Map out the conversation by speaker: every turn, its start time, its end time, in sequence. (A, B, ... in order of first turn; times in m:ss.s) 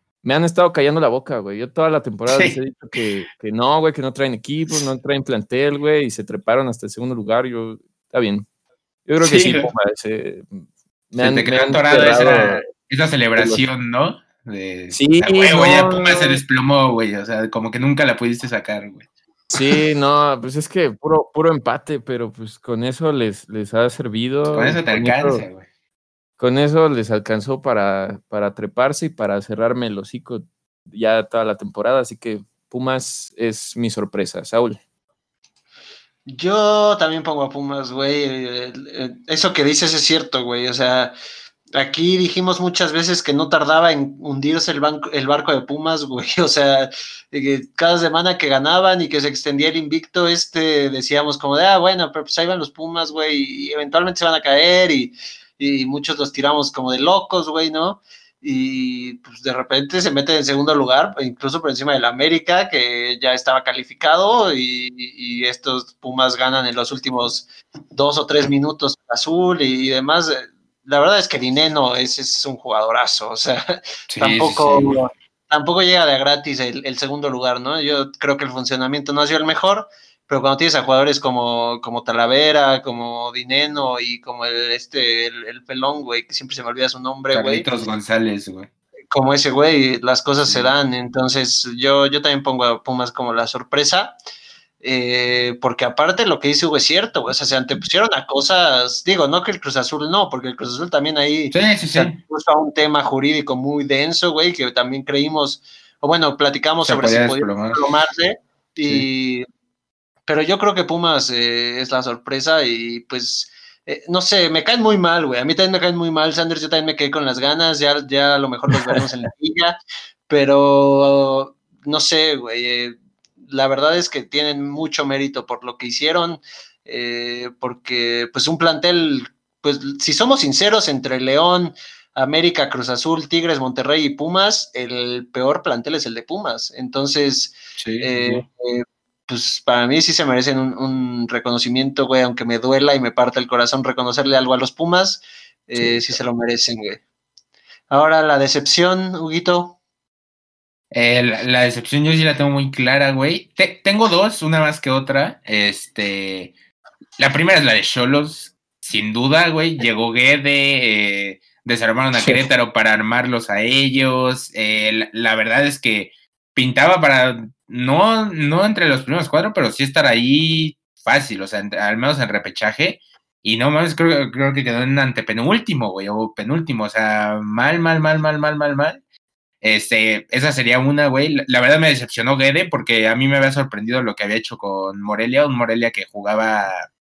0:00.2-0:08.5 A
0:02.3-0:02.6 B
0:09.0-0:12.7 A
0:09.2-0:09.7 B
0:11.2-0:19.0 B
0:13.4-0:13.6 A
0:14.9-0:16.4 A
0:19.5-0:25.4 A
0:24.5-0:25.6 B
0:26.4-0:34.8 A
0:36.2-0:41.1 C
0:41.7-1:27.6 C
1:14.1-1:15.0 B
1:27.3-1:28.7 B
1:29.1-1:34.2 C
1:30.5-1:30.7 B
1:34.8-1:49.4 C
1:41.5-1:42.2 B
1:46.8-1:47.8 B
1:50.3-1:59.8 C
2:00.3-2:27.0 C
2:17.8-2:18.4 B
2:27.9-2:29.8 C
2:30.9-2:36.5 B
2:37.2-2:59.0 B
2:42.2-2:42.5 A
2:59.6-3:06.9 B